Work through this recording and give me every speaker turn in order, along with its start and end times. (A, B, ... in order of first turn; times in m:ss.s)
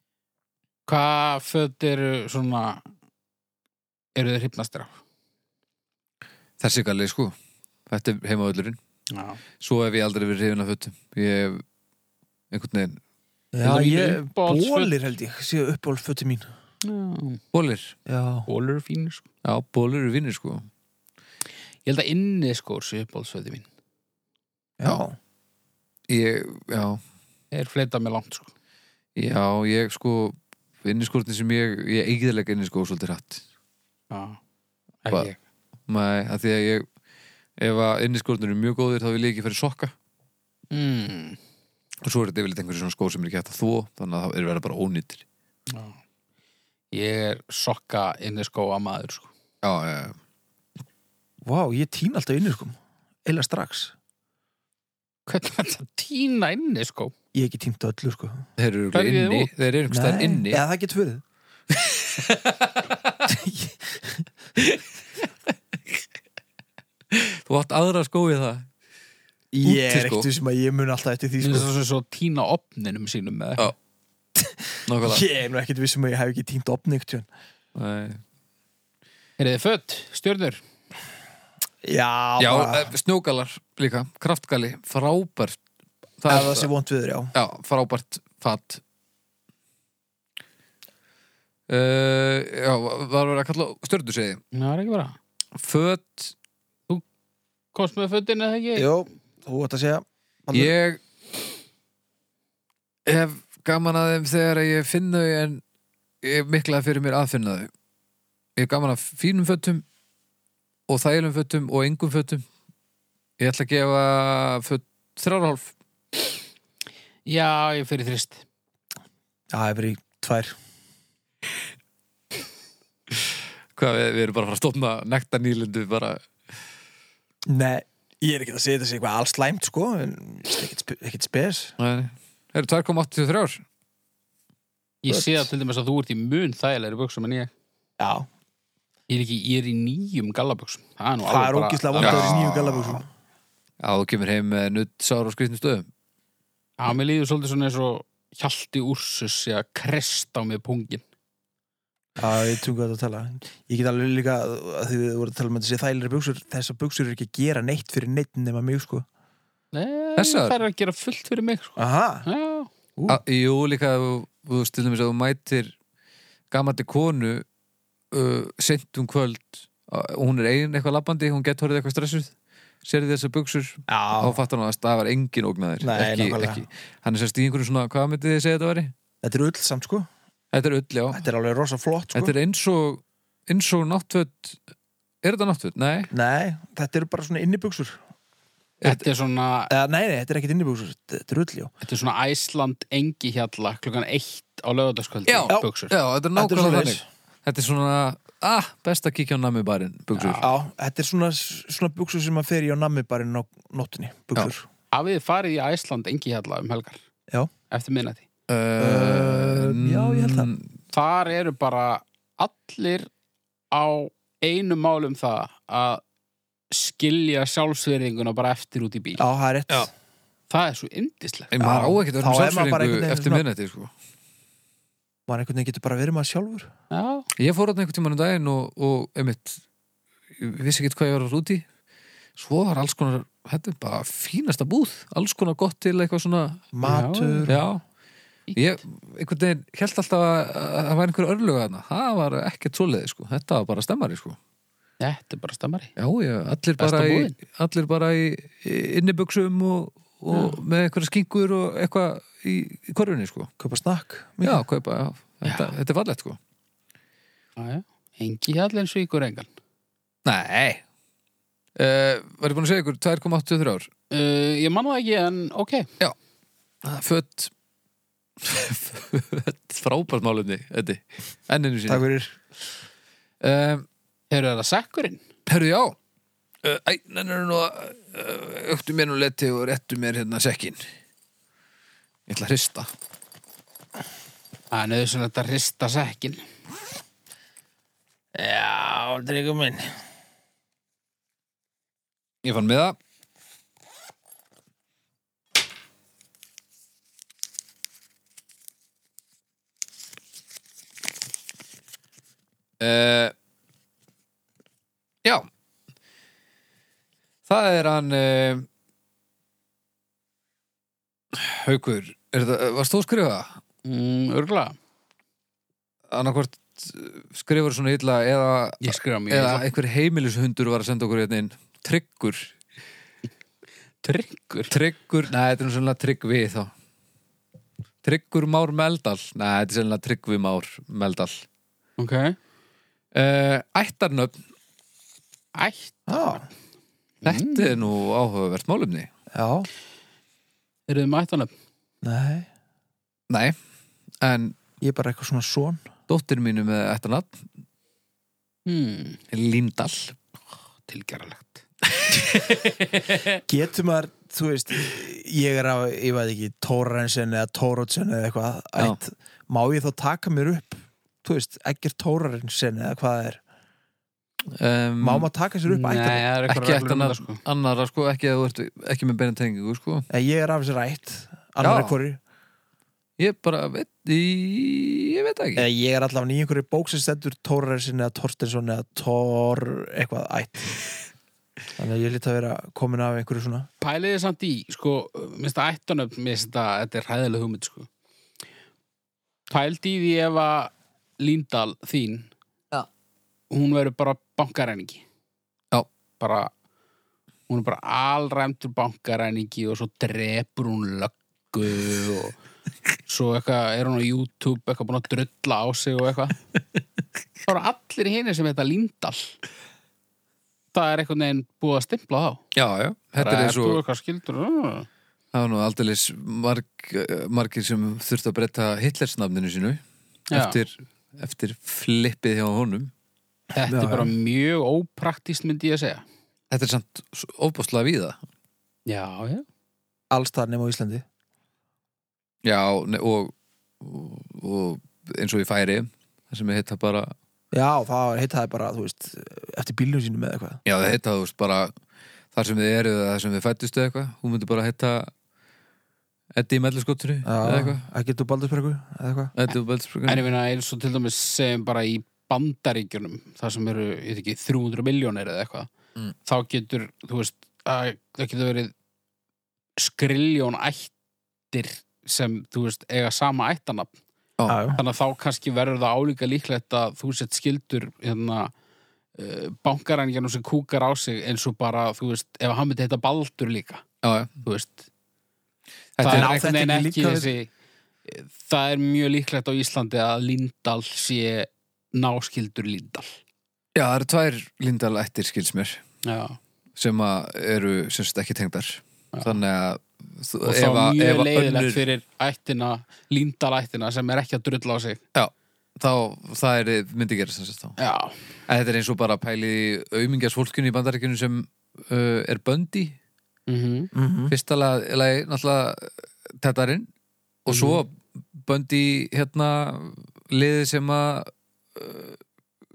0:00.9-0:02.9 A
0:04.2-0:05.0 A
0:06.6-0:07.4 B
0:07.9-0:08.8 B
0:09.1-0:09.4 A
0:09.6-0:11.6 B
0:12.5-0:13.0 B
0:13.5-0:16.5 C
0:13.6-0:14.9 A
0:16.8-0:17.4 A
0:17.5-0:18.0 B
0:18.1-0:18.5 C
0:18.5-0:19.2 A
0:19.4-0:20.7 B
0:21.8-0:23.7 A
0:24.8-0:25.2 C
0:26.1-0:27.0 B
0:27.5-0:28.5 A
0:29.2-0:33.4 B
0:34.1-0:34.4 A
0:35.0-0:35.4 A
0:35.9-0:36.9 B
0:37.6-0:39.9 B
0:40.7-0:41.4 A
0:42.0-0:45.2 B
0:45.7-0:46.0 A
0:46.9-0:49.3 A
0:49.6-0:50.2 B
0:51.4-0:54.0 C
0:55.3-0:57.1 A
0:57.3-0:58.5 C
0:58.6-1:00.6 B
0:58.9-0:59.5 A
0:59.9-1:01.2 C
1:01.7-1:03.1 B
1:03.3-1:04.3 C
1:07.1-1:08.7 B
1:09.5-1:11.7 C
1:09.6-1:10.3 B
1:11.4-1:13.7 A
1:14.4-1:17.3 C
1:14.9-1:15.2 B
1:17.8-1:18.2 B
1:19.4-1:20.6 A
1:21.8-1:22.9 C
1:22.4-1:25.6 B
1:26.2-1:26.7 B
1:26.3-1:27.3 C
1:27.3-1:28.8 B
1:31.7-1:34.4 B
1:34.5-1:35.2 A
1:35.6-1:36.3 B
1:37.7-1:38.9 A
1:38.8-1:40.7 C
1:40.5-1:41.0 B
1:43.1-1:45.6 B
1:46.2-1:47.7 B
1:48.6-1:49.8 B
1:50.9-1:52.4 B
1:53.4-1:55.7 B
1:57.3-1:58.4 A
1:59.5-2:00.6 C
2:03.8-2:06.2 B
2:07.5-2:11.8 C
2:11.8-2:13.6 B
2:15.0-2:17.5 A
2:15.1-2:15.5 C
2:18.0-2:18.3 C
2:19.1-2:22.4 A
2:21.3-2:23.1 C
2:22.0-2:23.0 B
2:23.8-2:25.9 B
2:26.8-2:31.0 A
2:32.2-2:39.1 C
2:39.7-2:42.7 A
2:40.2-2:40.6 B
2:41.8-2:42.3 C
2:43.1-2:45.7 B
2:46.5-2:47.4 B
2:48.1-2:52.3 B
2:52.8-2:58.9 B
2:53.9-2:54.4 C
2:55.8-2:56.6 C
2:59.2-3:00.1 C
3:00.5-3:01.2 B
3:01.1-3:02.3 C
3:02.1-3:04.6 B
3:05.2-3:06.1 B
3:06.1-3:08.0 C
3:08.8-3:09.1 B
3:08.8-3:09.7 A
3:09.7-3:11.7 C
3:11.8-3:15.9 A
3:15.3-3:20.5 B
3:16.4-3:17.0 C
3:20.1-3:20.5 A
3:20.4-3:24.7 C
3:24.9-3:27.0 A
3:27.7-3:28.3 A
3:28.5-3:30.7 B
3:28.8-3:30.5 C
3:30.9-3:33.1 A
3:33.7-3:36.0 A
3:36.7-3:39.2 A
3:39.2-3:39.9 C
3:40.5-3:41.5 A
3:41.5-3:43.9 B
3:41.6-3:43.4 C
3:45.3-3:46.7 C
3:46.9-3:47.3 A
3:47.4-3:49.6 B
3:50.4-3:51.6 B
3:52.4-3:56.7 B
3:56.7-3:57.7 C
3:56.8-3:57.5 A
3:57.5-3:57.8 B
3:58.6-4:04.4 B
4:05.0-4:05.9 A
4:06.0-4:13.5 B
4:06.8-4:07.4 A
4:10.3-4:10.6 A
4:13.6-4:14.6 C
4:14.4-4:16.4 B
4:15.4-4:15.7 A
4:17.6-4:19.5 A
4:20.2-4:20.8 B
4:21.8-4:23.9 B
4:24.1-4:25.9 A
4:26.8-4:27.5 B
4:28.4-4:32.0 B
4:31.9-4:32.4 C
4:33.4-4:33.9 B
4:34.3-4:35.2 A
4:35.5-4:36.0 B
4:36.6-4:40.8 B
4:42.3-4:42.9 B
4:44.7-4:46.4 A
4:48.4-4:50.0 C
4:52.4-4:53.0 B
5:02.8-5:03.3 B
5:07.5-5:08.7 B
5:11.3-5:13.6 B
5:13.8-5:14.8 A
5:16.1-5:22.5 B
5:18.8-5:19.7 A
5:24.0-5:24.7 A
5:24.7-5:26.7 B
5:28.0-5:31.4 B
5:32.0-5:32.4 A
5:33.1-5:34.4 B
5:35.6-5:36.4 A
5:36.1-5:36.4 C
5:37.2-5:39.1 B
5:37.2-5:37.8 A
5:39.3-5:39.7 C
5:40.9-5:41.5 A
5:42.0-5:42.5 C
5:43.3-5:43.6 B
5:44.2-5:44.6 B
5:44.8-5:45.9 C
5:46.1-5:47.4 B
5:48.7-5:49.2 A
5:49.3-5:50.2 B
5:50.8-5:51.6 A
5:52.1-5:53.2 B
5:53.5-6:03.4 C
6:04.6-6:05.3 B
6:05.0-6:06.2 C
6:05.7-6:07.4 A
6:06.5-6:10.1 B
6:10.1-6:12.2 C
6:11.6-6:12.0 B
6:13.2-6:15.7 B
6:15.6-6:20.8 C
6:21.8-6:23.7 C
6:23.8-6:27.9 A
6:29.5-6:32.3 A
6:33.5-6:35.0 A
6:36.2-6:36.5 A
6:37.5-6:42.4 A
6:43.1-6:46.4 A
6:47.4-6:49.4 A
6:50.7-6:52.4 A
6:52.5-6:53.8 B
6:53.2-6:54.9 A
6:55.3-6:59.8 B
7:00.3-7:00.6 A
7:00.3-7:02.9 B
7:03.5-7:06.0 A
7:03.7-7:04.1 C
7:06.5-7:08.2 B
7:08.9-7:09.5 A
7:10.1-7:11.0 C
7:12.4-7:17.1 B
7:17.5-7:20.6 C
7:20.6-7:21.7 B
7:22.4-7:25.1 B
7:26.4-7:27.8 B
7:27.2-7:29.3 C
7:29.4-7:30.3 B
7:30.1-7:35.7 A
7:36.2-7:38.7 A
7:39.8-7:40.9 A
7:41.5-7:43.9 A
7:44.5-7:44.8 C
7:44.7-7:48.5 A
7:49.2-7:53.8 A
7:54.0-7:54.3 B
7:54.4-7:54.9 A
7:56.0-7:56.4 B
7:56.0-7:57.5 A
7:56.1-7:57.3 C
7:58.0-8:03.2 A
8:03.8-8:05.8 B
8:06.0-8:06.4 A
8:06.8-8:11.8 B
8:09.1-8:09.4 A
8:10.4-8:15.0 A
8:15.2-8:17.8 B
8:17.8-8:18.2 A
8:18.5-8:23.0 B
8:23.5-8:23.9 A
8:23.9-8:24.3 C
8:24.3-8:26.9 B
8:27.4-8:32.2 B
8:27.5-8:27.8 A